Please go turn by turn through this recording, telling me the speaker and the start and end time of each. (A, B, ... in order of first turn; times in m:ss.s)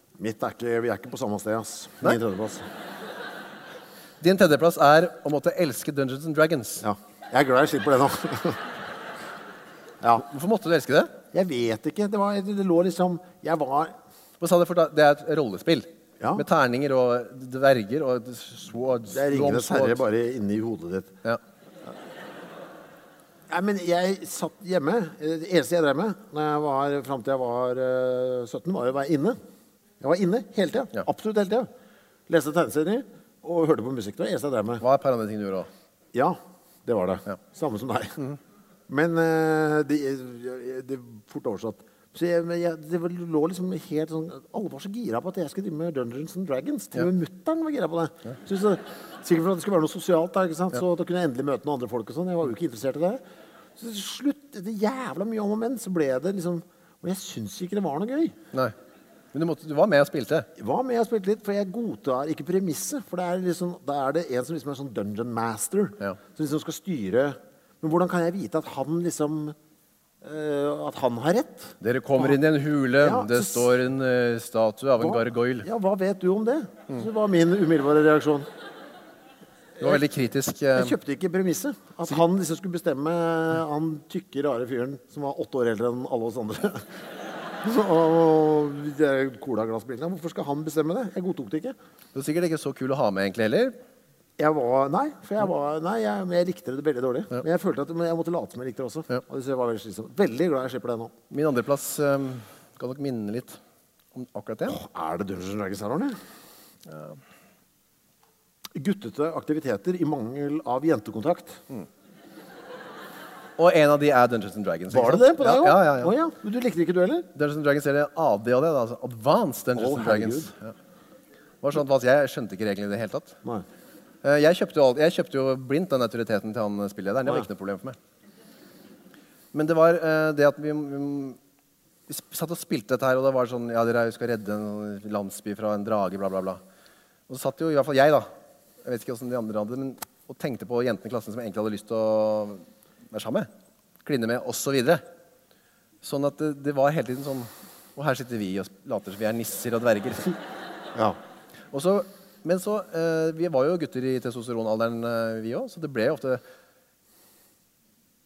0:00.2-0:02.6 A
0:04.2-0:06.8 B
0:06.8-0:08.6 A
0:10.2-0:11.1 B
0:11.3-0:13.9 A
0:14.4-0:20.0 B
0:19.1-0:21.1 A
0:23.5-0:29.4 A
0:30.0-0:31.7 A
0:32.3-0:34.8 A
0:34.8-0:35.7 B
0:36.1-0:38.2 A
0:38.9-0:53.2 A
0:53.8-0:58.4 A
0:59.3-1:00.5 B
1:00.6-1:09.6 A
1:10.2-1:12.4 A
1:11.8-1:15.7 B
1:13.0-1:13.7 A
1:15.0-1:18.5 A
1:19.8-1:21.0 B
1:20.8-1:26.9 A
1:27.6-1:31.8 A
1:32.1-1:33.8 B
1:34.4-1:41.1 A
1:41.3-1:43.6 B
1:44.1-1:44.8 B
1:44.7-1:46.2 A
1:46.9-1:47.2 B
1:48.7-1:51.6 A
1:53.6-1:56.1 B
1:54.9-1:57.3 A
1:57.3-2:00.7 B
1:59.7-2:00.5 A
2:01.6-2:03.4 B
2:04.2-2:08.0 B
2:09.5-2:11.4 B
2:12.1-2:16.6 B
2:17.3-2:18.3 B
2:18.8-2:23.5 B
2:24.0-2:25.0 B
2:26.0-2:30.4 B
2:31.7-2:36.4 B